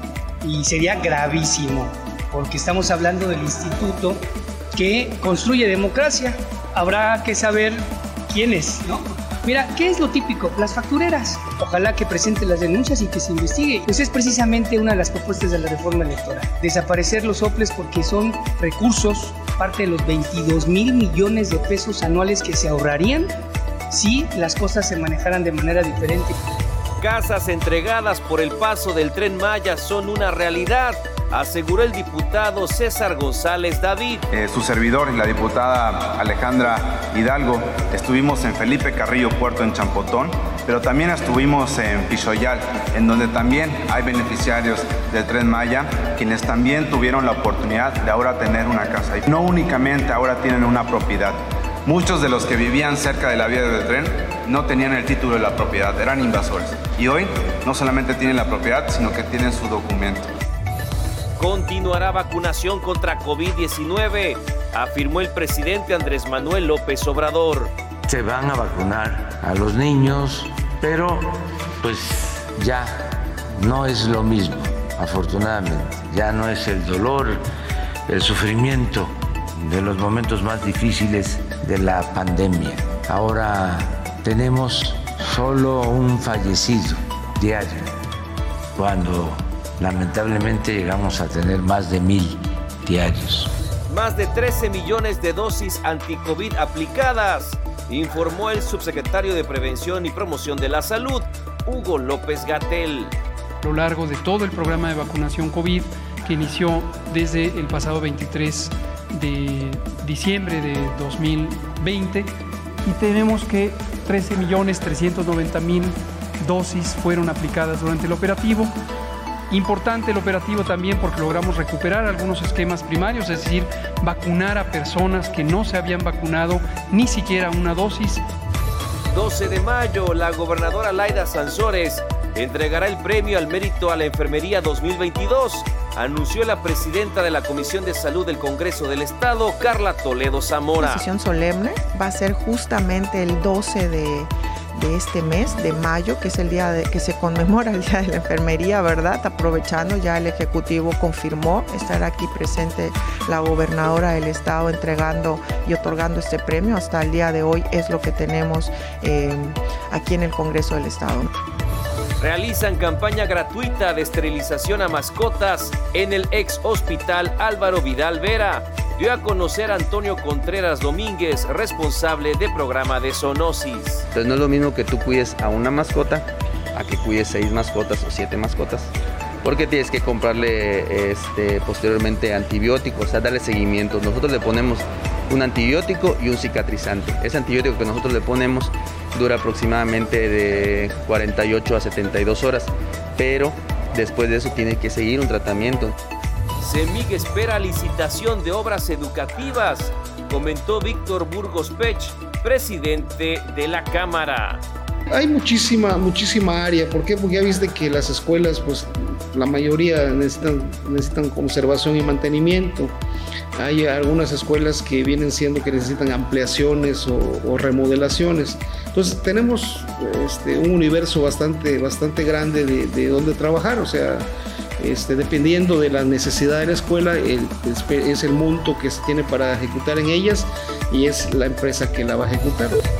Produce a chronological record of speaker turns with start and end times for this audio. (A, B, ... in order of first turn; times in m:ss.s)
0:00.4-0:23.4 A
0:23.9-0:26.4 A
0:27.0-0:34.2 B
0:34.3-1:00.3 C
1:01.4-1:07.7 B
1:08.1-1:11.3 D
1:11.8-1:13.0 D
1:13.6-1:17.4 D
1:18.1-1:27.9 D
1:28.8-1:33.5 D
1:33.9-1:43.1 B
1:43.6-1:52.3 E
1:52.8-1:58.7 E
1:59.5-2:08.2 E
2:09.1-2:21.0 B
2:20.8-2:41.3 F
2:42.2-2:54.1 B
2:54.1-2:58.9 G
2:59.4-3:15.9 G
3:16.6-3:24.6 B
3:25.1-3:32.9 H
3:33.6-3:44.3 H
3:44.8-3:52.8 H